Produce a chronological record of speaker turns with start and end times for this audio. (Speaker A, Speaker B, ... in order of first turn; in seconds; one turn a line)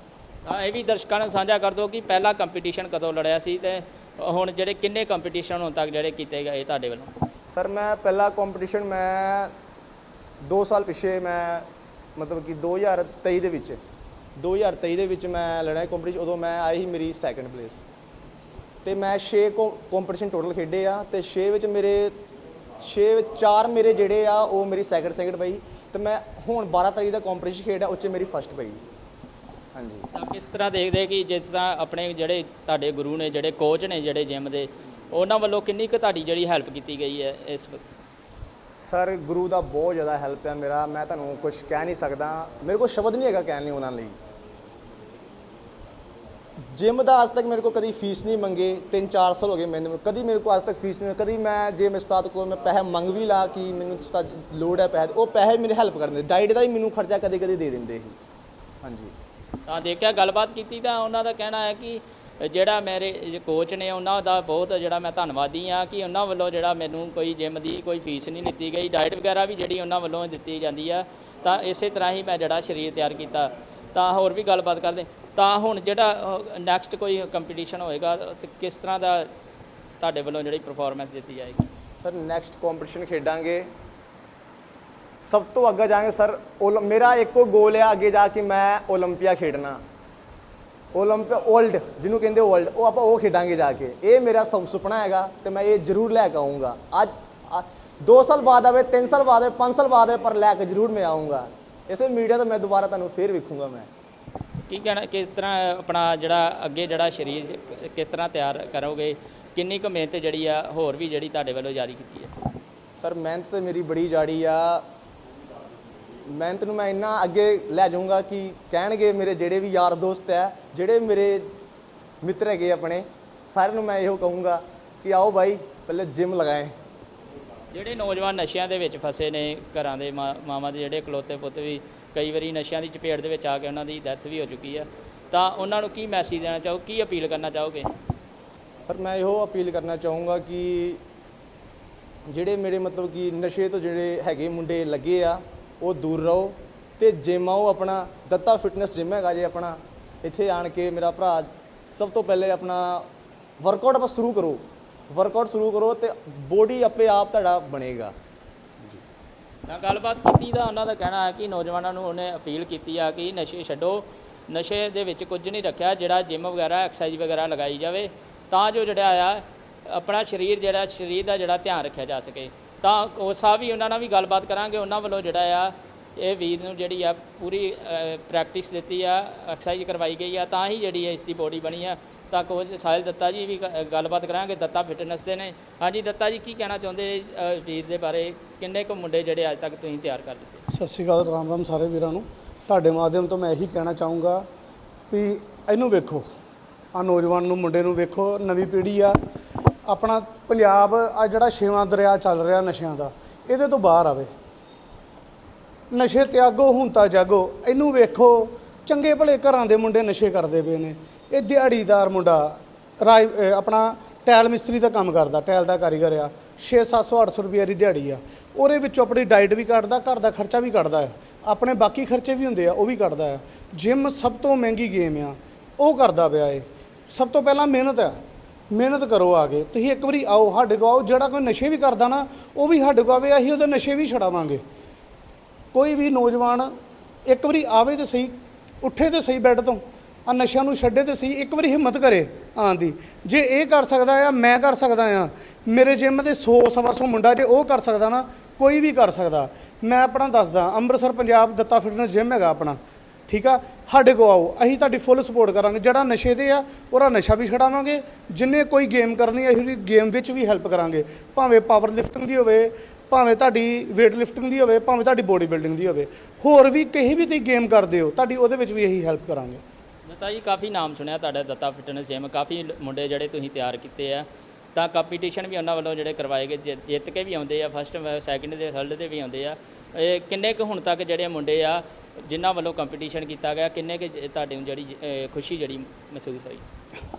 Speaker A: 0.4-7.1
Speaker B: 7.5-9.5
Speaker B: 10.4-13.8
Speaker B: 14.4-17.8
Speaker B: 18.8-22.1
Speaker B: 22.8-28.8
Speaker B: 29.7-30.1
Speaker A: 30.1-37.8
Speaker B: 38.8-44.1
Speaker B: 46.7-58.1
Speaker B: 58.8-59.1
Speaker A: 59.7-79.3
Speaker A: 80.0-81.6
Speaker B: 82.0-83.7
Speaker B: 85.2-89.8
Speaker B: 90.9-103.9
Speaker A: 104.7-112.3
Speaker B: 113.0-114.8
Speaker B: 116.3-121.5
Speaker B: 122.2-126.7
Speaker A: 127.7-137.9
Speaker B: 138.9-141.0
Speaker B: 142.3-153.1
Speaker B: 153.6-158.1
Speaker A: 159.7-190.6
Speaker C: 190.7-194.4
Speaker C: 195.1-196.3
Speaker C: 196.9-199.2
Speaker C: 199.9-204.3
Speaker C: 205.9-228.2
Speaker C: 228.7-234.6
Speaker C: 235.7-236.7
Speaker C: 237.2-252.8
Speaker C: 253.3-269.6
Speaker A: 270.1-286.6